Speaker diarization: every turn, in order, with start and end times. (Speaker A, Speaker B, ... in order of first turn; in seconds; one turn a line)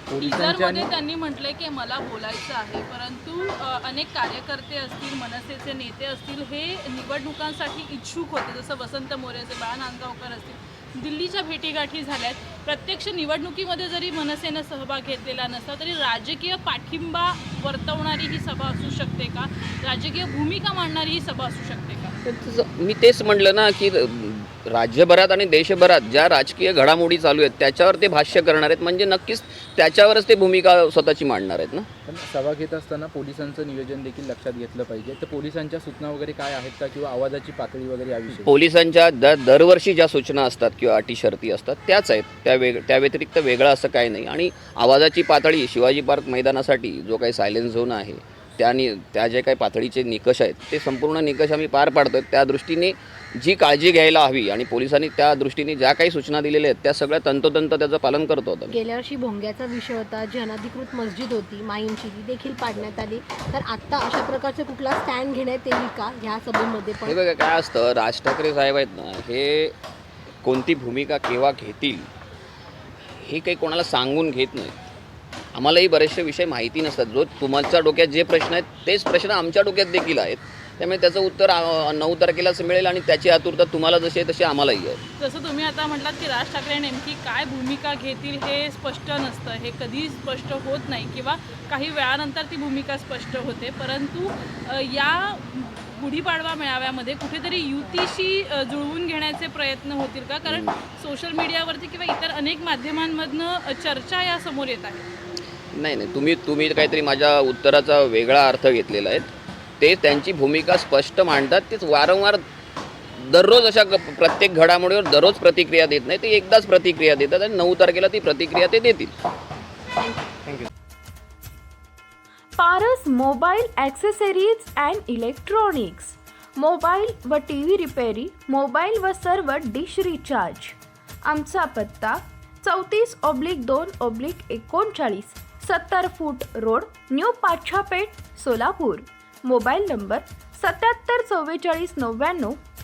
Speaker A: 0.1-0.9
Speaker B: 0.2-22.1
Speaker C: 22.2-31.9
Speaker A: 32.1-38.5
Speaker C: 38.5-58.7
Speaker D: 58.7-67.2
Speaker C: 67.0-69.7
Speaker C: 70.4-72.1
Speaker C: 73.2-74.8
Speaker C: 75.5-85.0
Speaker B: 85.2-105.1
Speaker C: 105.7-112.4
Speaker C: 113.2-119.1
Speaker E: 122.6-142.6